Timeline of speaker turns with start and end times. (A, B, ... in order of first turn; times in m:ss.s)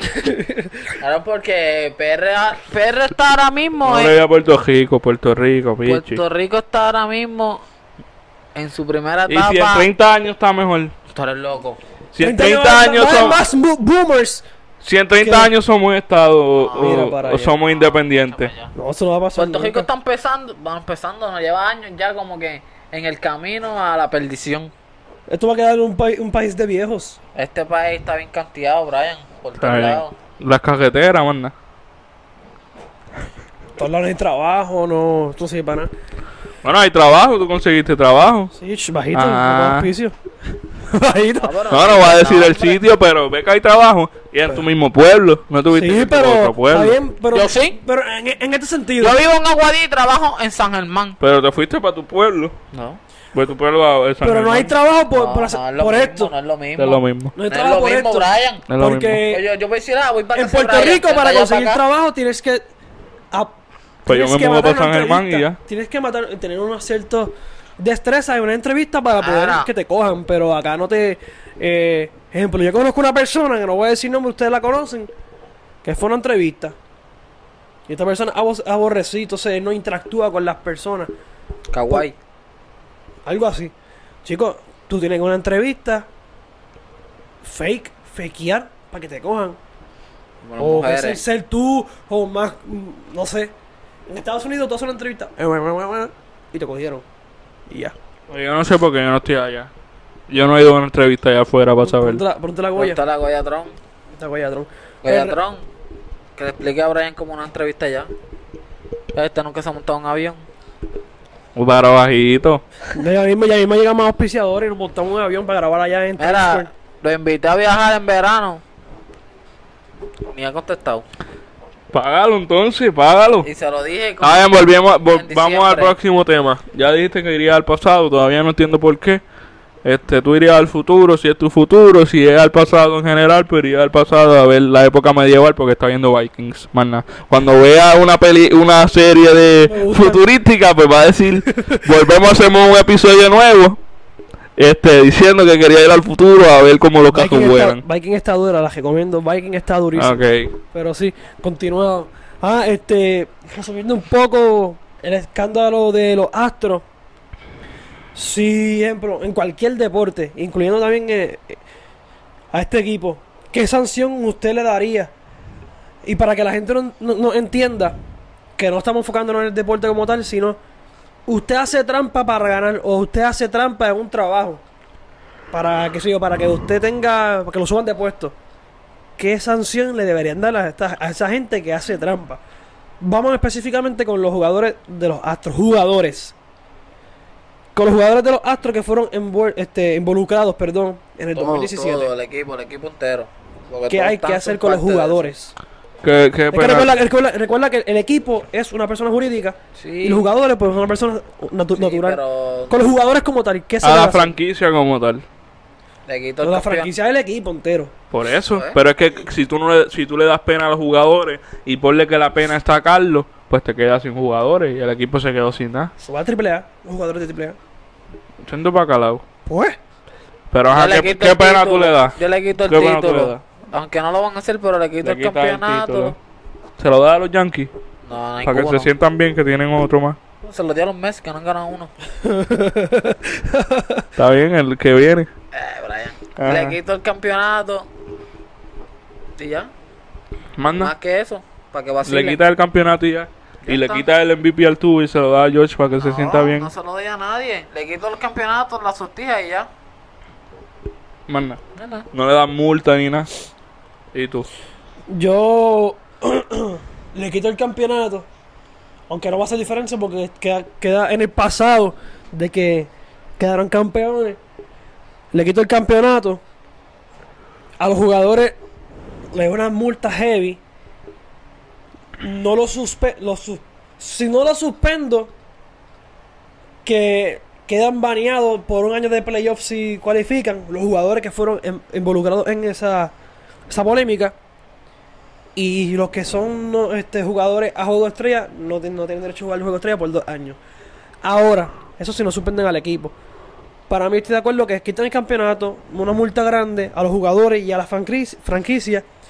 0:00.2-0:00.6 A
0:01.0-0:04.2 B
0:03.8-0:06.2 C
0:05.8-0:07.6 B
0:08.6-0:09.9 B
0:09.3-0:10.9 C
0:11.1-0:11.8 B
0:12.1-0:13.4 C
0:12.2-0:14.4 A
0:14.8-0:18.5 C
0:15.2-0:15.5 A
0:16.6-0:17.1 B
0:16.8-0:17.5 A
0:17.6-0:18.7 B
0:18.8-0:19.9 A
0:19.4-0:24.7 B
0:25.3-0:27.2 A
0:27.4-0:30.2 B
0:29.6-0:31.5 C
0:33.8-0:35.9 A
0:36.6-0:38.5 C
0:38.6-0:40.2 A
0:39.1-0:39.9 C
0:40.8-0:41.6 A
0:41.4-0:42.8 B
0:41.7-0:47.0 C
0:45.7-0:49.2 A
0:47.3-0:47.8 B
0:49.0-0:51.2 B
0:51.2-0:52.6 C
0:52.7-0:53.0 B
0:53.3-0:54.7 C
0:54.2-0:56.3 A
0:55.1-0:58.6 B
0:56.8-0:57.3 C
0:57.4-0:59.4 A
0:58.7-0:59.2 C
0:59.3-1:01.8 B
1:00.3-1:02.6 A
1:03.3-1:15.1 A
1:04.1-1:05.6 C
1:09.2-1:09.7 B
1:15.8-1:16.8 A
1:17.9-1:21.1 A
1:21.7-1:22.1 B
1:23.2-1:23.7 A
1:24.2-1:26.1 A
1:27.4-1:29.6 A
1:30.4-1:31.2 B
1:30.6-1:33.5 A
1:34.1-1:37.0 A
1:37.7-1:38.0 A
1:38.3-1:39.7 C
1:40.3-1:42.2 C
1:41.8-1:43.0 A
1:42.8-1:43.8 B
1:44.1-1:45.4 A
1:45.0-1:45.6 B
1:46.4-1:48.1 B
1:49.1-1:50.4 B
1:51.6-1:52.6 C
1:52.9-1:56.7 A
1:56.2-1:58.6 B
2:00.3-2:01.0 B
2:01.9-2:03.5 C
2:03.4-2:06.0 B
2:04.2-2:09.2 C
2:09.8-2:23.8 C
2:19.7-2:20.2 A
2:21.6-2:21.8 A
2:24.6-2:27.8 C
2:27.1-2:30.2 A
2:30.0-2:30.6 C
2:30.7-2:36.8 A
2:38.2-2:41.6 A
2:42.5-2:45.1 A
2:46.0-2:48.0 A
2:48.6-2:50.6 A
2:51.3-2:54.6 A
2:55.5-2:58.4 A
2:59.2-3:02.4 A
3:03.0-3:06.3 A
3:07.8-3:12.1 A
3:11.3-3:15.3 B
3:13.9-3:15.5 A
3:16.0-3:17.0 C
3:16.5-3:24.4 A
3:19.8-3:20.3 B
3:21.8-3:22.8 B
3:23.8-3:25.2 C
3:26.1-3:26.9 B
3:26.4-3:27.9 A
3:28.1-3:35.9 C
3:28.5-3:28.8 B
3:36.0-3:37.6 A
3:38.4-3:39.2 C
3:39.5-3:39.8 A
3:40.5-3:43.4 C
3:40.7-3:46.2 B
3:45.0-3:46.2 C
3:46.8-3:47.7 C
3:48.0-3:48.9 B
3:48.4-3:50.2 C
3:50.4-3:51.9 B
3:52.2-3:54.1 A
3:54.2-3:55.3 C
3:55.5-3:57.9 B
3:56.4-3:56.8 C
3:59.4-3:59.7 B
4:00.6-4:00.9 C
4:00.7-4:02.4 B
4:02.1-4:06.7 C
4:03.6-4:04.1 B
4:06.0-4:09.7 B
4:11.3-4:11.6 C
4:11.8-4:12.1 B
4:12.1-4:13.3 C
4:14.1-4:14.5 C
4:15.1-4:18.3 A
4:19.1-4:24.4 A
4:25.3-4:26.4 A
4:27.8-4:28.6 A
4:29.3-4:30.6 A
4:32.2-4:35.3 A
4:36.8-4:43.1 A
4:43.7-4:44.4 A
4:45.6-4:50.6 A
4:51.2-4:53.1 A
4:53.9-4:59.0 A